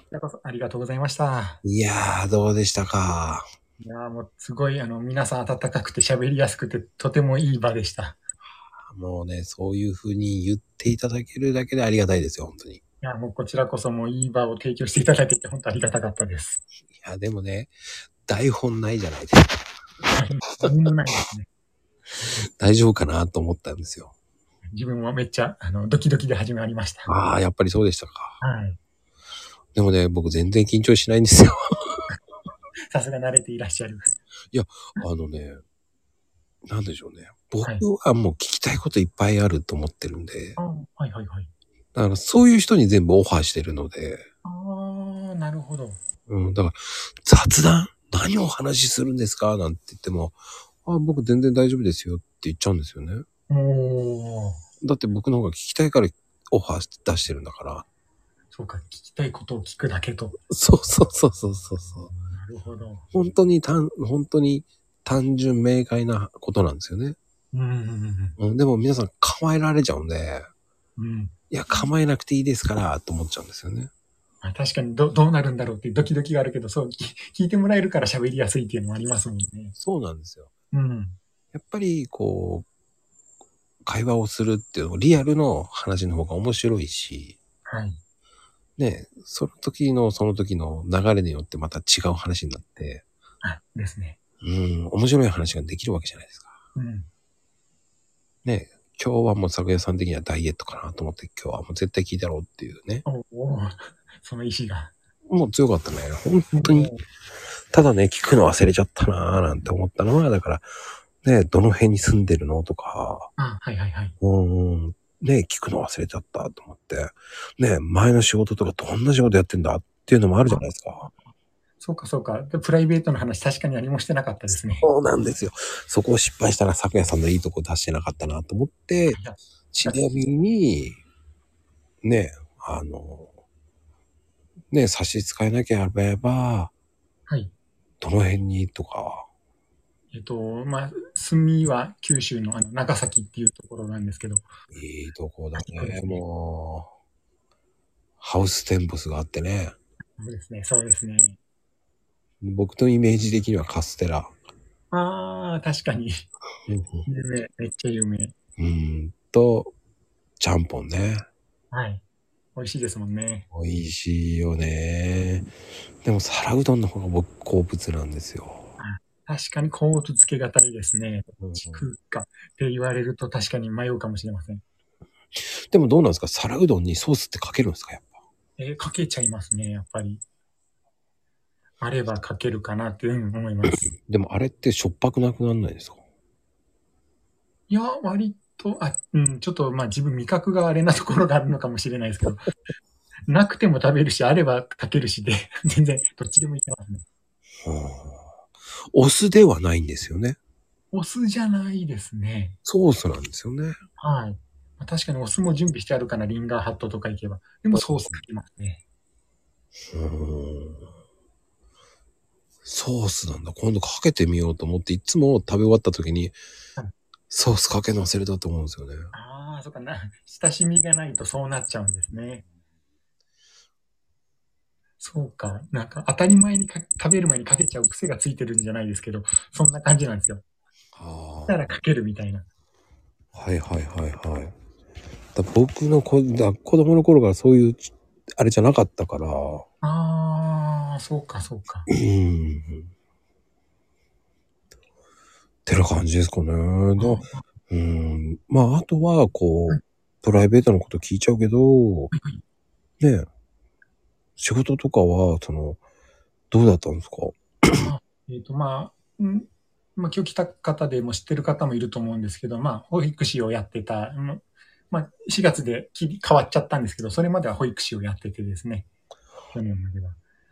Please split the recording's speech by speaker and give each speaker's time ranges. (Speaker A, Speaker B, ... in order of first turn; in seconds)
Speaker A: 0.1-1.6, 3.8-8.2, 13.0-16.6, 20.1-21.5, 24.7-27.1, 28.4-28.8, 32.9-34.1, 40.6-41.5, 44.4-46.0, 53.5-54.6, 58.5-60.4, 61.6-63.1, 67.5-68.4, 71.0-71.8, 74.4-79.8, 80.7-81.2, 87.7-88.0, 93.4-94.2, 96.8-97.1, 103.1-104.9, 106.5-107.0, 113.4-114.2, 121.8-124.9, 129.1-130.2, 137.3-137.5, 140.1-144.5, 145.6-146.2, 150.2-151.4, 154.9-156.3, 157.1-158.3, 161.7-162.0, 162.6-163.5, 168.8-174.6, 178.6-180.2, 181.8-183.9, 187.7-192.5, 193.3-197.0, 200.9-202.6, 204.0-208.8, 219.1-222.5, 225.0-230.4, 231.5-232.5, 239.8-241.9, 247.0-247.4, 252.1-252.4, 257.8-268.9, 269.5-270.2
Speaker B: 1.6-3.5, 8.9-12.8, 16.9-19.6, 22.6-24.1, 27.1-28.4, 29.8-32.1, 34.5-35.6, 36.7-40.6, 42.0-44.2, 46.3-53.2, 54.8-57.9, 60.5-62.1, 63.1-67.2, 68.4-70.5, 71.5-73.9, 79.8-80.5, 81.5-82.7, 83.8-87.4, 88.8-93.0, 94.4-96.5, 98.5-103.0, 105.3-107.0, 107.7-110.7, 111.2-113.3, 114.2-121.1, 124.8-129.2, 129.7-131.0, 132.0-133.3, 134.7-136.7, 138.0-139.3, 144.7-146.9, 148.2-149.8, 152.4-154.3, 156.7-157.1, 158.6-159.7, 160.4-161.3, 163.5-168.7, 171.4-171.9, 175.4-178.1, 183.8-186.0, 197.6-198.3, 198.9-200.4, 202.7-203.8, 207.7-208.2, 209.9-210.8, 212.6-216.4, 217.3-219.1, 230.9-231.6, 233.3-234.6, 235.3-239.7, 241.9-242.9, 245.7-252.1, 253.0-253.3, 254.4-255.8, 256.5-257.9